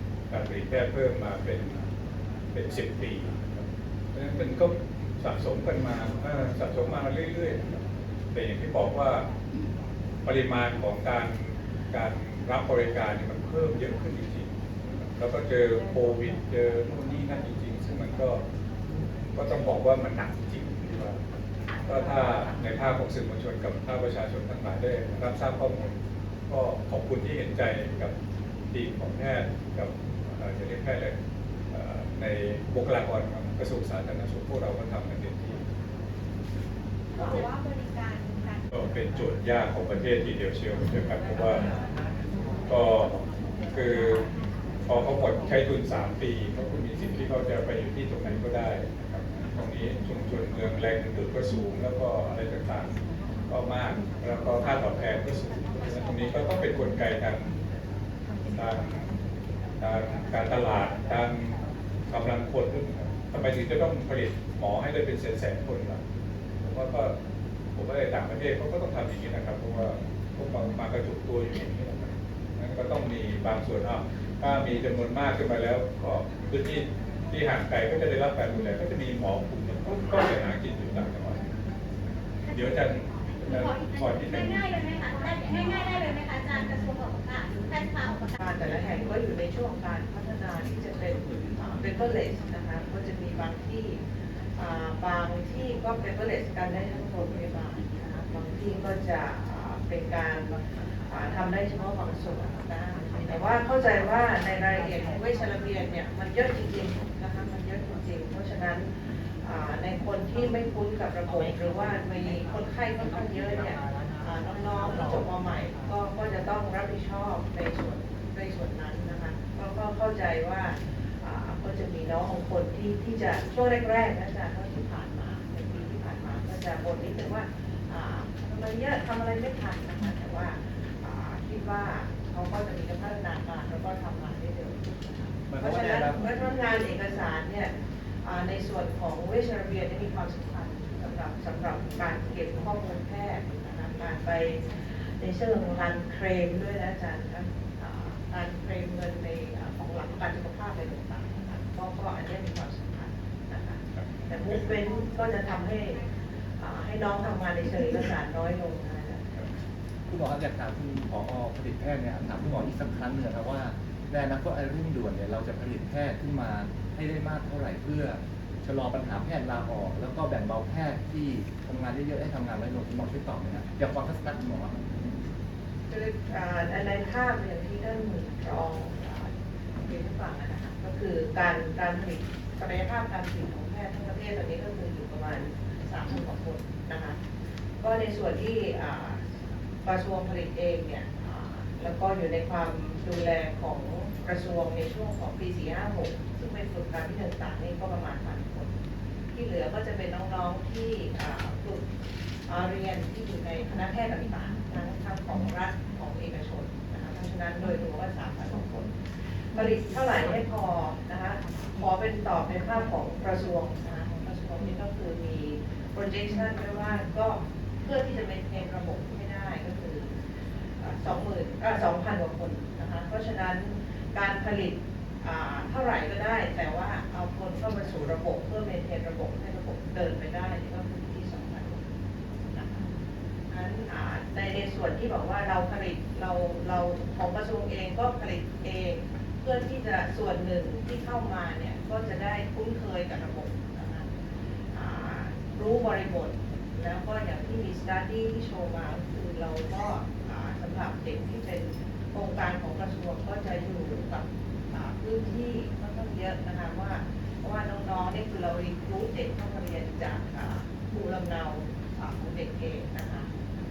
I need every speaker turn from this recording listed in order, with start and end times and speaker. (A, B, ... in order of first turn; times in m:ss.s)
0:00.3-0:01.9 A
0:02.5-0:09.3 A
0:10.2-0:18.4 A
0:19.3-0:21.2 A
0:21.8-0:28.1 A
0:28.7-0:31.1 A
0:31.7-0:35.6 A
0:37.1-0:38.7 B
0:38.7-0:41.7 A
0:42.7-0:44.2 A
0:44.9-0:52.9 A
0:53.5-0:57.6 A
0:58.5-0:59.2 A
0:59.8-1:06.0 A
1:06.6-1:07.1 A
1:07.8-1:21.6 A
1:22.5-1:24.6 A
1:23.5-1:28.4 B
1:28.4-1:34.0 C
1:34.6-1:48.9 C
1:49.4-2:17.7 C
2:15.5-2:16.2 D
2:18.2-2:36.0 C
2:34.0-2:34.3 A
2:36.6-2:39.3 C
2:40.1-2:55.1 D
2:55.9-2:59.3 C
2:59.8-3:07.2 C
3:07.8-3:09.2 C
3:09.8-3:18.7 C
3:19.3-3:21.9 C
3:22.4-3:29.0 C
3:29.5-3:40.1 C
3:40.8-3:51.9 C
3:52.5-3:52.8 C
3:53.5-4:04.1 C
4:04.7-4:23.3 C